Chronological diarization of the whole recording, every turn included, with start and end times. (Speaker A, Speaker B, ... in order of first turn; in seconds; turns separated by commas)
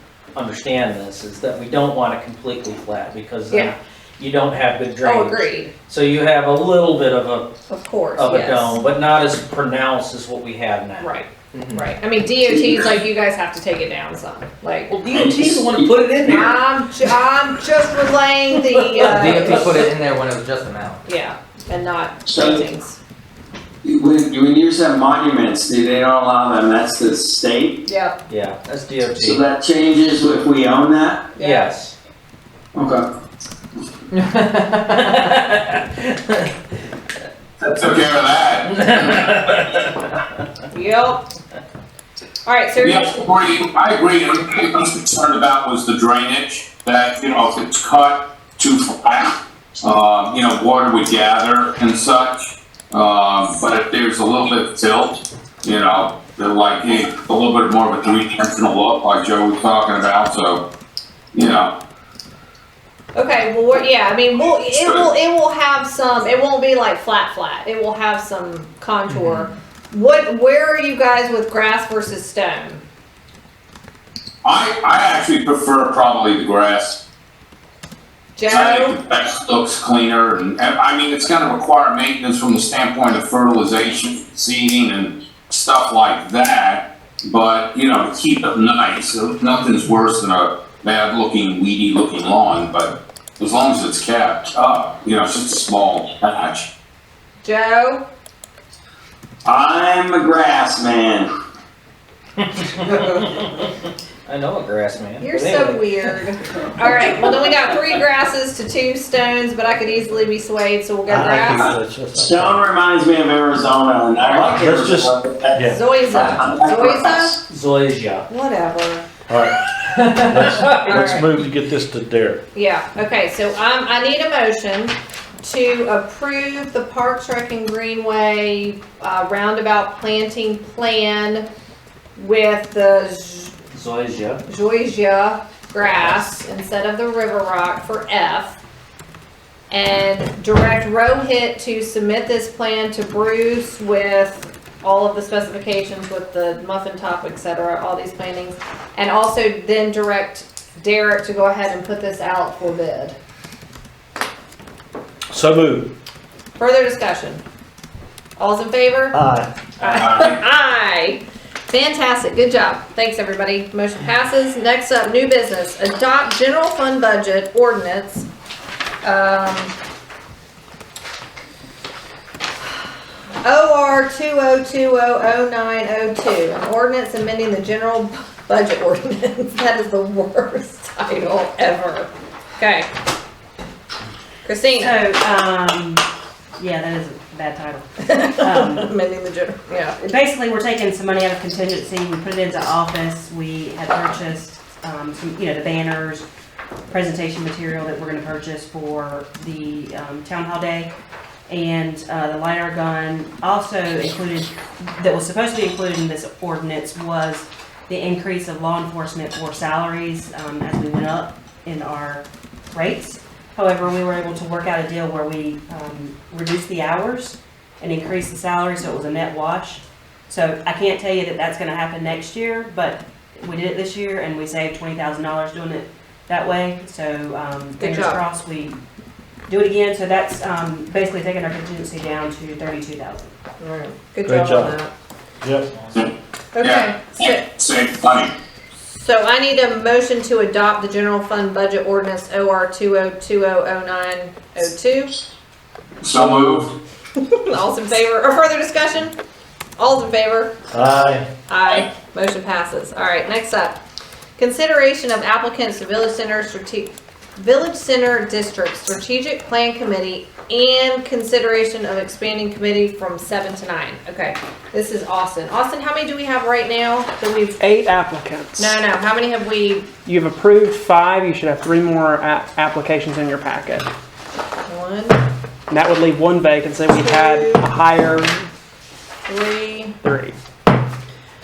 Speaker A: 0.3-7.5, Speaker B: 5.0-5.7, Speaker B: 7.7-8.8, Speaker A: 8.2-11.1, Speaker B: 11.0-14.9, Speaker C: 11.5-11.8, Speaker D: 12.5-12.8, Speaker A: 14.9-16.6, Speaker D: 15.1-15.9, Speaker B: 16.2-19.9, Speaker A: 18.9-19.9, Speaker C: 19.0-21.0, Speaker B: 21.0-23.0, Speaker D: 22.3-22.6, Speaker D: 23.8-27.8, Speaker B: 27.9-28.1, Speaker A: 28.3-29.4, Speaker D: 29.1-31.3, Speaker B: 31.4-31.7, Speaker A: 31.4-31.9, Speaker D: 32.7-33.0, Speaker A: 34.9-36.5, Speaker E: 37.6-39.0, Speaker A: 38.7-40.3, Speaker B: 40.7-41.2, Speaker B: 42.4-43.2, Speaker E: 42.8-60.6, Speaker E: 61.3-61.7, Speaker B: 63.1-72.8, Speaker E: 64.7-65.1, Speaker E: 74.4-77.0, Speaker B: 78.3-79.0, Speaker E: 78.5-96.7, Speaker B: 97.4-98.0, Speaker D: 99.4-101.3, Speaker A: 102.4-103.7, Speaker A: 104.2-105.9, Speaker B: 105.2-111.7, Speaker F: 111.1-112.3, Speaker D: 111.4-117.4, Speaker G: 112.3-112.6, Speaker F: 114.6-115.7, Speaker B: 115.7-117.4, Speaker A: 117.5-118.2, Speaker B: 118.3-119.0, Speaker F: 119.3-119.5, Speaker A: 120.0-121.1, Speaker G: 120.3-121.1, Speaker F: 120.3-122.4, Speaker B: 120.5-121.2, Speaker B: 122.5-131.5, Speaker B: 132.2-133.6, Speaker A: 133.7-134.4, Speaker B: 134.5-138.6, Speaker A: 135.8-136.4, Speaker B: 139.7-153.2, Speaker F: 155.3-155.9, Speaker B: 156.6-157.4, Speaker B: 158.4-159.2, Speaker A: 159.8-160.2, Speaker B: 159.8-168.3, Speaker E: 159.8-160.4, Speaker B: 169.0-169.7, Speaker B: 173.4-182.9, Speaker B: 184.4-185.0, Speaker H: 184.8-186.0, Speaker H: 186.6-188.9, Speaker B: 188.0-190.0, Speaker H: 190.0-196.3, Speaker H: 196.9-200.9, Speaker H: 201.5-228.8, Speaker B: 227.8-228.2, Speaker H: 229.5-233.3, Speaker B: 233.6-234.9, Speaker F: 234.2-234.7, Speaker E: 235.9-238.3, Speaker B: 236.5-237.4, Speaker B: 238.8-245.1, Speaker E: 246.0-246.7, Speaker G: 246.2-246.4, Speaker B: 247.2-249.1, Speaker B: 249.8-250.5, Speaker F: 250.7-251.2, Speaker B: 251.5-253.8, Speaker B: 254.4-267.6, Speaker G: 267.6-268.7, Speaker B: 268.6-269.9, Speaker G: 270.0-273.9, Speaker B: 274.7-275.2, Speaker G: 275.7-278.4, Speaker B: 276.9-277.7, Speaker B: 279.3-279.9, Speaker G: 280.0-280.4